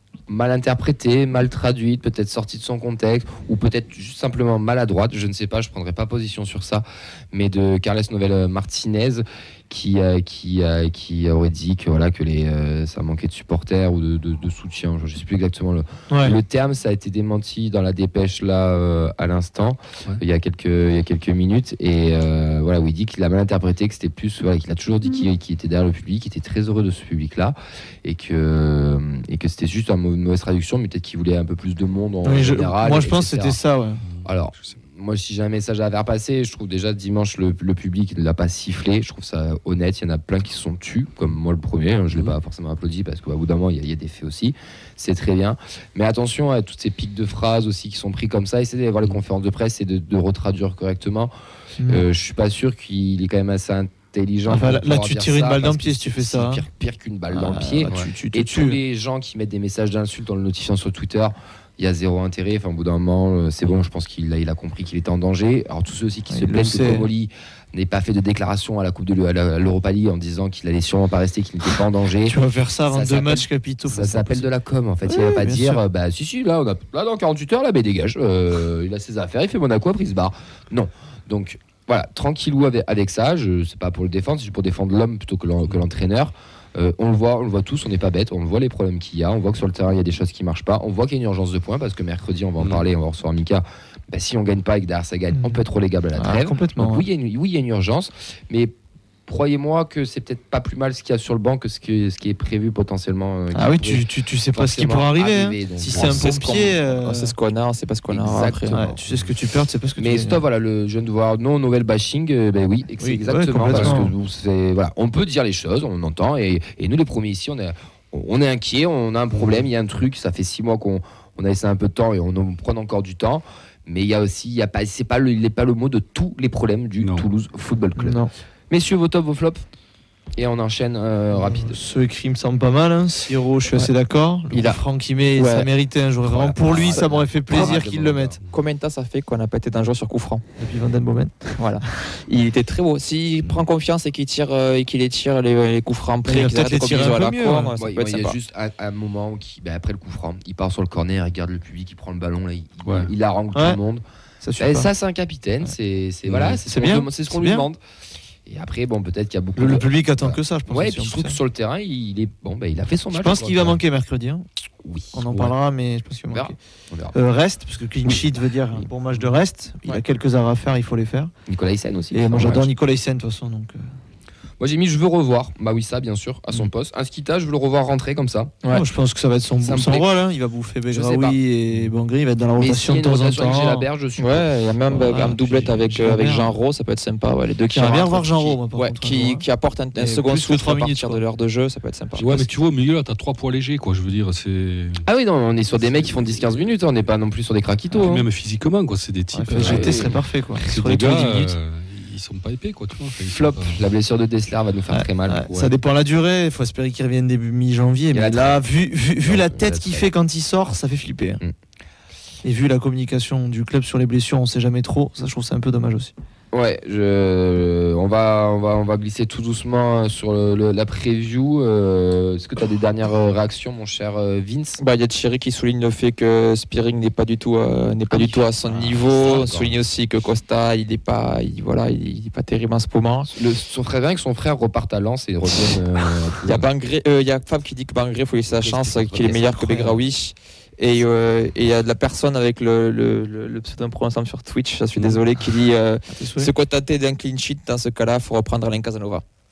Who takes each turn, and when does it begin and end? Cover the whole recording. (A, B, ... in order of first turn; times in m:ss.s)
0:00.3-0:33.6 A
0:16.1-0:16.4 B
0:32.2-0:34.0 B
0:34.0-0:34.8 C
0:34.2-0:51.3 A
0:51.8-0:52.0 B
0:51.9-1:12.4 A
0:54.5-0:56.6 B
0:57.3-0:58.8 B
0:57.9-0:58.1 C
1:06.3-1:07.1 B
1:12.2-1:14.4 B
1:12.9-1:38.7 A
1:13.9-1:14.2 C
1:15.0-1:15.8 B
1:35.3-1:35.6 B
1:36.2-1:37.0 B
1:39.3-1:46.6 A
1:43.5-1:47.4 B
1:45.9-1:46.2 C
1:46.1-1:48.7 D
1:48.1-1:49.0 A
1:48.7-1:50.4 B
1:50.0-2:09.6 A
1:53.0-1:54.1 B
1:53.7-1:54.0 C
2:07.0-2:07.2 C
2:08.0-2:08.3 B
2:10.4-2:11.8 A
2:11.3-2:18.4 B
2:15.4-2:15.7 D
2:16.2-2:18.4 A
2:16.7-2:17.0 C
2:18.5-2:20.4 D
2:20.6-2:21.5 B
2:21.6-2:28.4 D
2:26.3-2:27.7 B
2:27.8-2:34.0 A
2:32.8-2:33.1 C
2:33.5-2:33.8 B
2:34.4-2:34.9 B
2:34.6-2:37.8 A
2:36.3-2:36.6 C
2:36.6-2:37.7 B
2:38.4-2:43.8 A
2:39.6-2:41.4 B
2:43.1-2:44.4 B
2:44.8-2:45.2 A
2:45.1-2:46.6 B
2:46.3-2:47.2 A
2:47.1-2:51.3 B
2:51.5-2:52.7 A
2:52.1-2:53.9 B
2:54.6-2:58.6 A
2:58.7-3:03.9 B
2:59.6-3:00.1 A
3:00.9-3:01.4 A
3:02.6-3:04.5 A
3:04.2-3:12.5 D
3:05.0-3:06.6 B
3:07.7-3:11.2 B
3:12.2-3:15.0 C
3:15.0-3:18.3 A
3:15.7-3:16.7 C
3:17.9-3:23.8 C
3:19.3-3:21.6 B
3:19.5-3:20.1 A
3:23.3-3:25.7 A
3:24.9-3:31.4 B
3:28.1-3:28.6 A
3:29.2-3:30.1 A
3:32.4-3:36.1 B
3:36.5-3:44.8 A
3:44.8-3:53.3 D
3:48.1-3:49.8 A
3:53.3-3:56.7 A
3:56.4-4:09.2 D
3:58.6-3:59.7 A
4:05.0-4:05.2 C
4:06.1-4:06.5 B